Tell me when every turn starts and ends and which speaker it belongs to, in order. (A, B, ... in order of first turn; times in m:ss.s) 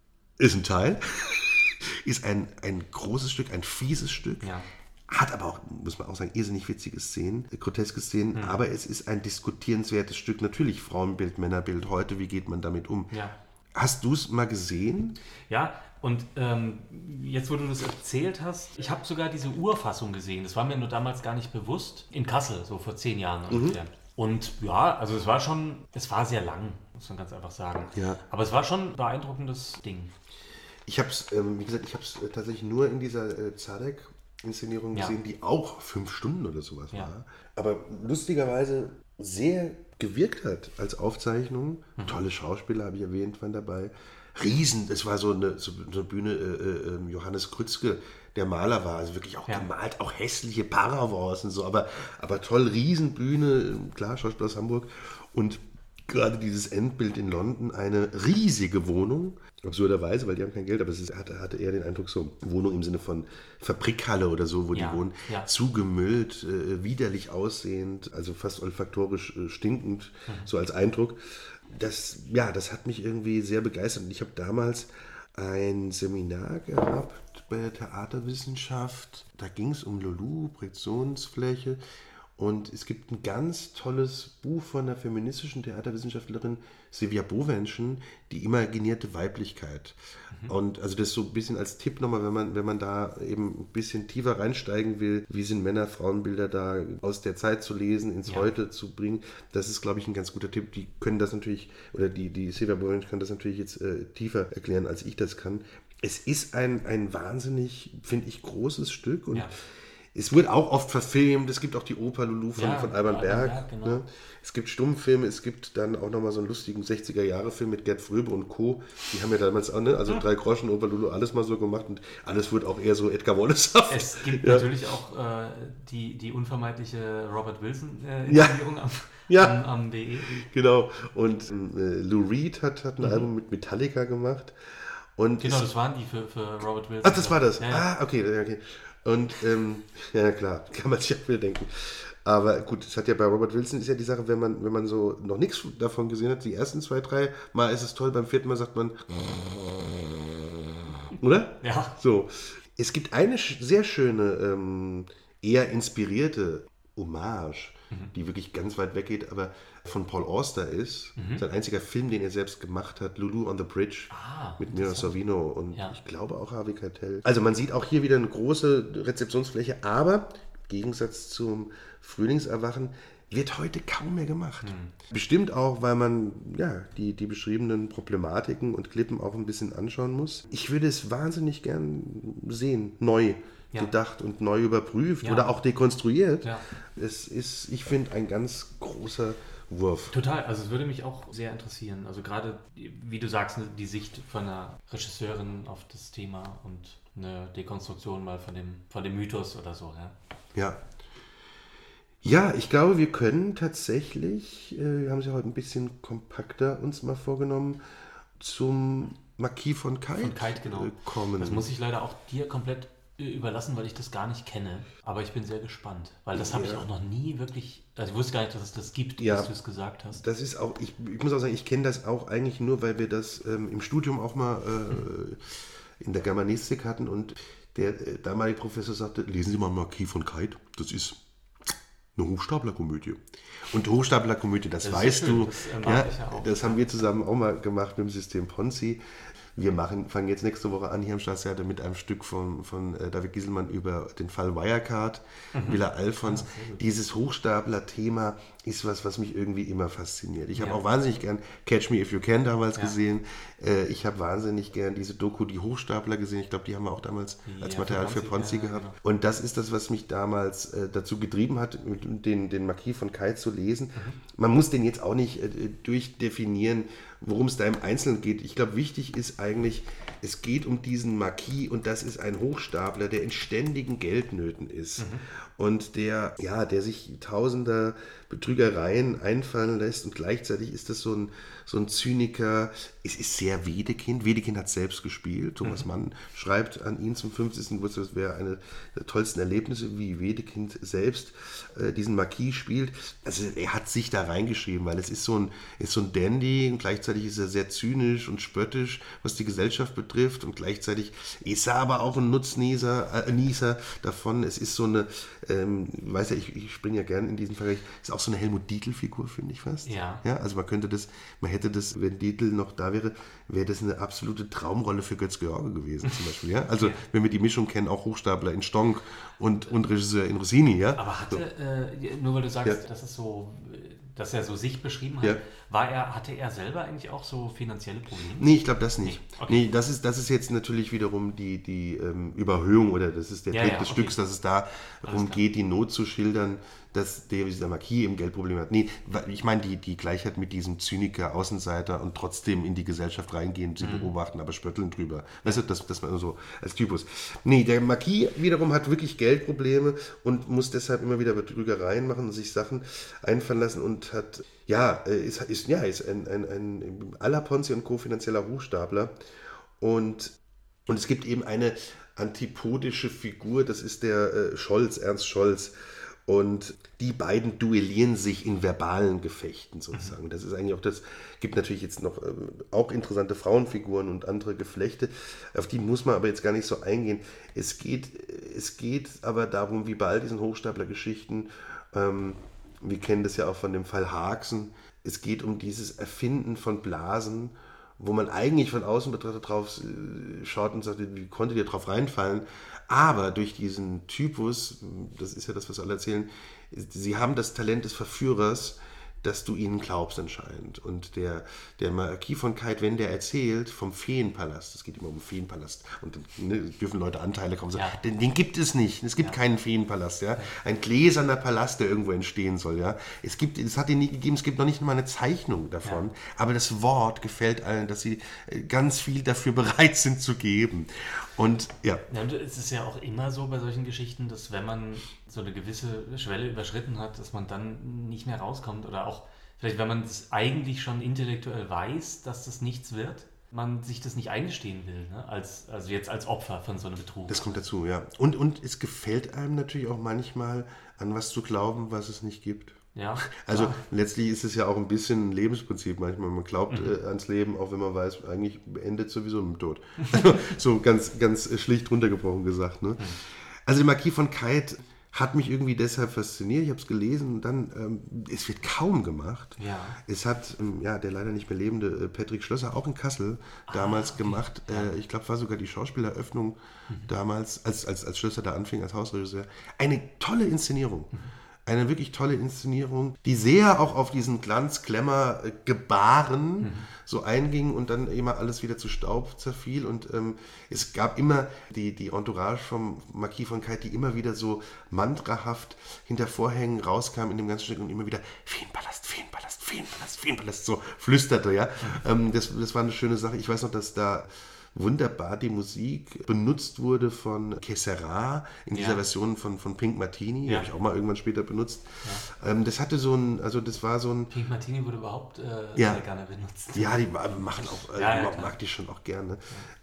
0:00.4-0:04.5 A
0:04.4-0:04.7 B
0:05.1-0:13.1 A
0:08.3-0:08.6 B
0:13.1-0:13.4 B
0:13.7-0:15.2 A
0:15.5-0:30.1 B
0:23.5-0:23.8 A
0:27.9-0:28.2 A
0:30.8-1:21.8 A
1:04.7-1:05.5 B
1:22.4-1:49.5 A
1:38.2-1:38.5 B
1:50.1-2:04.7 A
1:52.6-1:54.0 B
2:03.9-2:10.4 B
2:08.3-2:08.6 A
2:09.3-2:09.6 A
2:10.2-2:15.7 A
2:13.0-2:13.3 B
2:15.4-2:17.8 B
2:17.0-2:30.4 A
2:31.1-3:10.1 A
2:31.6-2:32.0 B
2:41.2-2:41.4 B
2:44.1-2:45.1 B
2:54.6-2:54.9 B
3:05.2-3:05.5 B
3:10.1-3:20.1 B
3:20.5-3:20.8 A
3:22.2-3:27.8 A
3:28.4-3:31.7 A
3:30.2-3:40.2 B
3:36.3-3:36.8 A
3:39.2-3:39.5 A
3:40.1-3:51.2 A
3:52.1-3:59.0 A
3:54.8-3:56.8 B
3:59.6-5:21.4 A
4:05.5-4:06.8 B
4:10.5-4:10.8 B
4:17.4-4:19.0 B
4:35.0-4:35.2 B
4:45.6-4:45.9 B
5:09.8-5:10.2 B
5:21.0-5:28.5 B
5:28.3-5:59.1 A
5:29.0-5:29.6 B
5:33.5-5:34.2 B
5:35.0-5:35.4 B
5:43.8-5:44.1 B
5:59.8-7:02.0 A
7:02.1-7:17.6 B
7:17.3-7:51.1 A
7:22.9-7:23.8 B
7:26.7-7:27.0 B
7:30.0-7:30.3 B
7:39.6-7:40.0 B
7:43.7-7:44.9 B
7:51.6-8:24.3 A
7:56.6-7:56.9 B
8:18.7-8:19.0 B
8:24.3-8:27.1 B
8:25.8-8:26.0 A
8:26.7-8:29.6 A
8:27.6-8:28.5 B